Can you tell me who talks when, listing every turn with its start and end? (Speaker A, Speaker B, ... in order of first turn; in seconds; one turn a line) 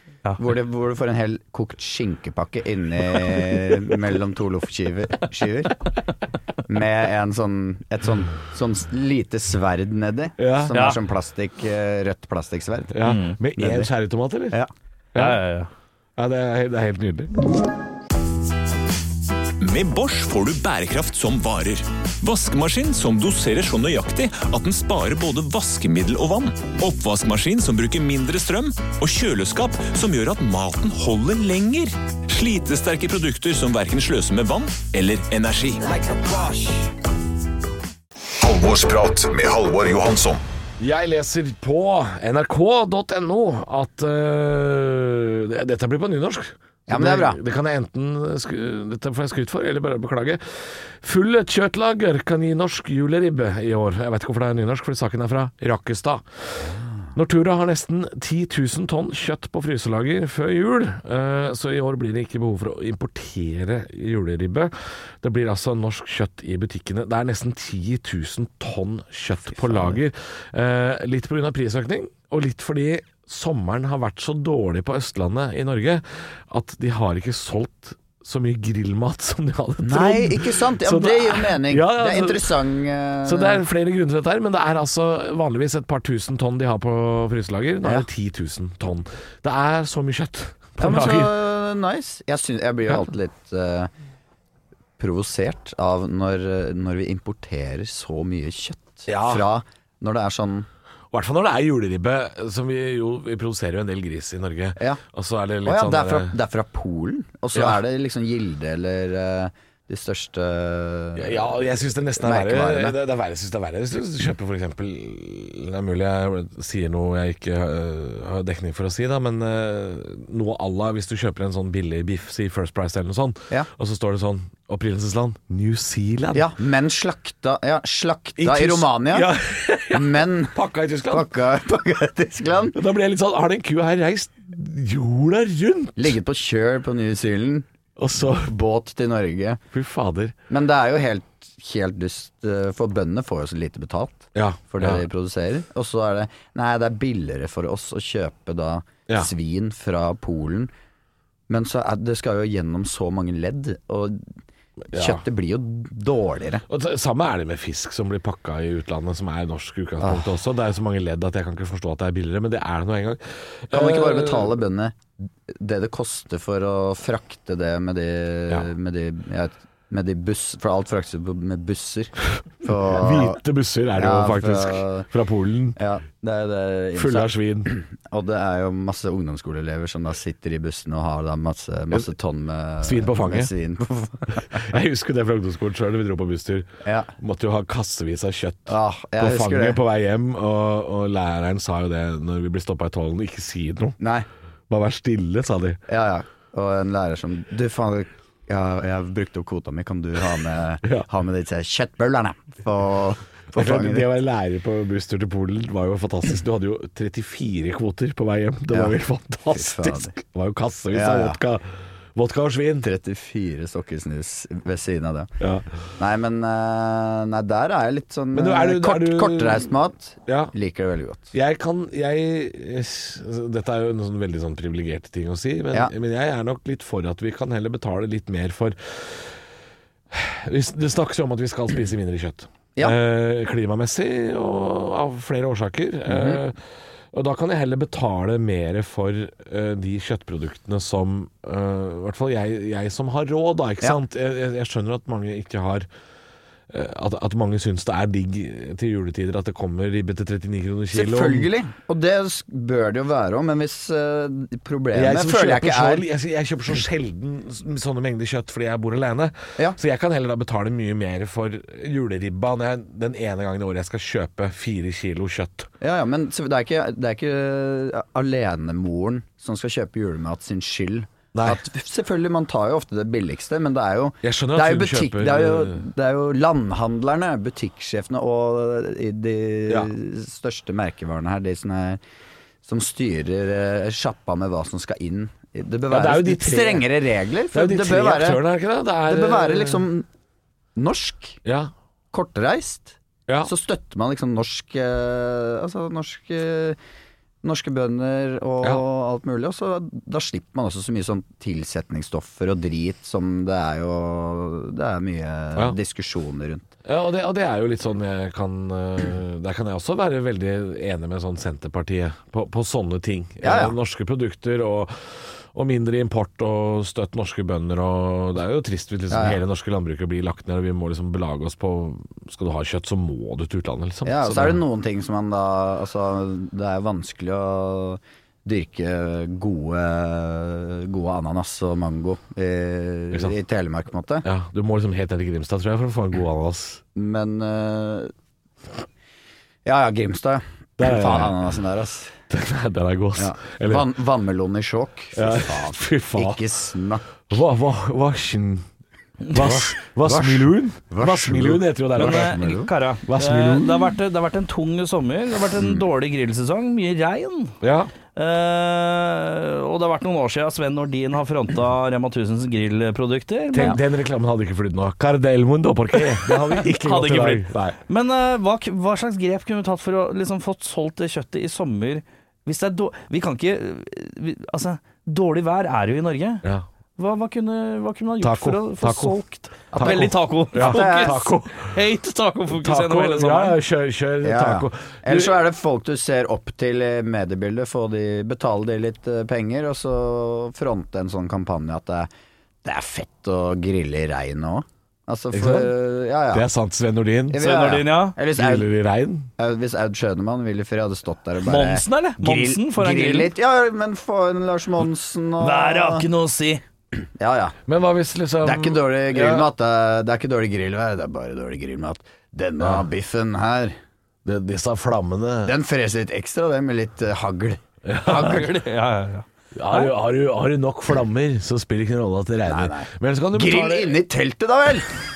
Speaker A: 0.4-5.8
Speaker A: 6.7-12.9
Speaker B: 10.4-10.7
Speaker C: 10.7-11.0
Speaker B: 12.9-14.6
Speaker C: 13.0-13.4
Speaker A: 13.6-13.9
Speaker B: 15.1-15.4
Speaker C: 15.1-15.7
Speaker B: 16.2-17.3
Speaker D: 19.6-35.9
Speaker E: 38.4-40.4
Speaker B: 40.8-82.6
Speaker A: 46.9-47.4
Speaker A: 69.5-70.0
Speaker A: 79.8-83.6
Speaker B: 83.2-91.3
Speaker A: 90.8-93.9
Speaker A: 95.0-100.7
Speaker B: 99.1-99.5
Speaker B: 101.1-106.3
Speaker A: 105.6-111.6
Speaker B: 111.2-126.5
Speaker A: 112.2-113.0
Speaker A: 126.3-129.3
Speaker B: 128.4-131.3
Speaker A: 129.9-130.6
Speaker A: 131.1-132.8
Speaker B: 132.7-136.1
Speaker A: 136.0-137.7
Speaker B: 138.0-138.5
Speaker A: 138.3-139.6
Speaker B: 139.7-140.3
Speaker A: 140.5-150.7
Speaker B: 144.3-145.1
Speaker A: 151.5-154.2
Speaker B: 154.9-155.2
Speaker A: 154.9-156.6
Speaker B: 156.7-164.6
Speaker A: 160.0-160.3
Speaker A: 163.7-165.0
Speaker A: 165.5-173.4
Speaker B: 172.9-175.8
Speaker A: 173.9-175.1
Speaker A: 175.8-184.6
Speaker B: 176.9-177.7
Speaker B: 182.8-183.5
Speaker B: 184.5-186.7
Speaker A: 186.8-187.1
Speaker B: 187.2-194.0
Speaker A: 188.7-189.8
Speaker A: 194.0-194.3
Speaker B: 194.7-195.8
Speaker A: 195.9-204.1
Speaker B: 203.5-211.6
Speaker A: 208.7-208.9
Speaker A: 209.5-210.1
Speaker A: 210.9-211.4
Speaker B: 212.2-212.9
Speaker A: 212.8-215.3
Speaker B: 215.4-215.7
Speaker A: 216.0-221.3
Speaker B: 218.3-219.7
Speaker B: 220.3-220.5
Speaker B: 221.3-229.4
Speaker B: 230.1-236.6
Speaker A: 236.1-236.4
Speaker B: 237.1-245.9
Speaker B: 246.7-251.5
Speaker A: 250.9-256.0
Speaker B: 254.9-265.7
Speaker A: 265.8-282.0
Speaker B: 271.3-271.6
Speaker B: 274.2-275.9
Speaker A: 282.6-288.4
Speaker B: 285.9-286.9
Speaker B: 287.5-289.8
Speaker A: 289.1-290.1
Speaker A: 290.8-291.4
Speaker A: 292.1-296.8
Speaker A: 297.4-306.7
Speaker B: 306.9-324.6
Speaker A: 313.4-313.8
Speaker A: 319.1-319.4
Speaker A: 324.1-334.3
Speaker B: 334.2-336.8
Speaker A: 336.9-338.1
Speaker A: 339.6-342.2
Speaker B: 340.8-341.4
Speaker B: 342.3-343.9
Speaker A: 343.2-347.4
Speaker B: 345.1-346.4
Speaker B: 347.3-348.7
Speaker B: 349.3-352.5
Speaker A: 349.4-352.7
Speaker C: 351.9-357.5
Speaker B: 353.1-353.9
Speaker A: 355.6-355.8
Speaker B: 357.6-357.9
Speaker C: 358.1-363.8
Speaker B: 363.5-367.8
Speaker C: 366.3-376.4
Speaker C: 377.0-383.6
Speaker B: 378.2-379.2
Speaker A: 379.7-381.3
Speaker B: 379.7-381.7
Speaker B: 382.5-385.4
Speaker A: 384.2-392.1
Speaker A: 392.6-396.5
Speaker B: 395.3-395.7
Speaker B: 396.3-397.7
Speaker A: 397.3-398.7
Speaker C: 397.4-398.2
Speaker B: 398.3-399.3
Speaker A: 399.4-406.1
Speaker C: 401.4-403.3
Speaker C: 405.4-406.6
Speaker A: 407.0-407.6
Speaker B: 407.7-409.5
Speaker A: 408.4-413.8
Speaker B: 414.2-415.6
Speaker A: 415.4-418.4
Speaker B: 417.9-418.5
Speaker C: 418.0-419.9
Speaker B: 419.6-424.0
Speaker A: 422.4-424.9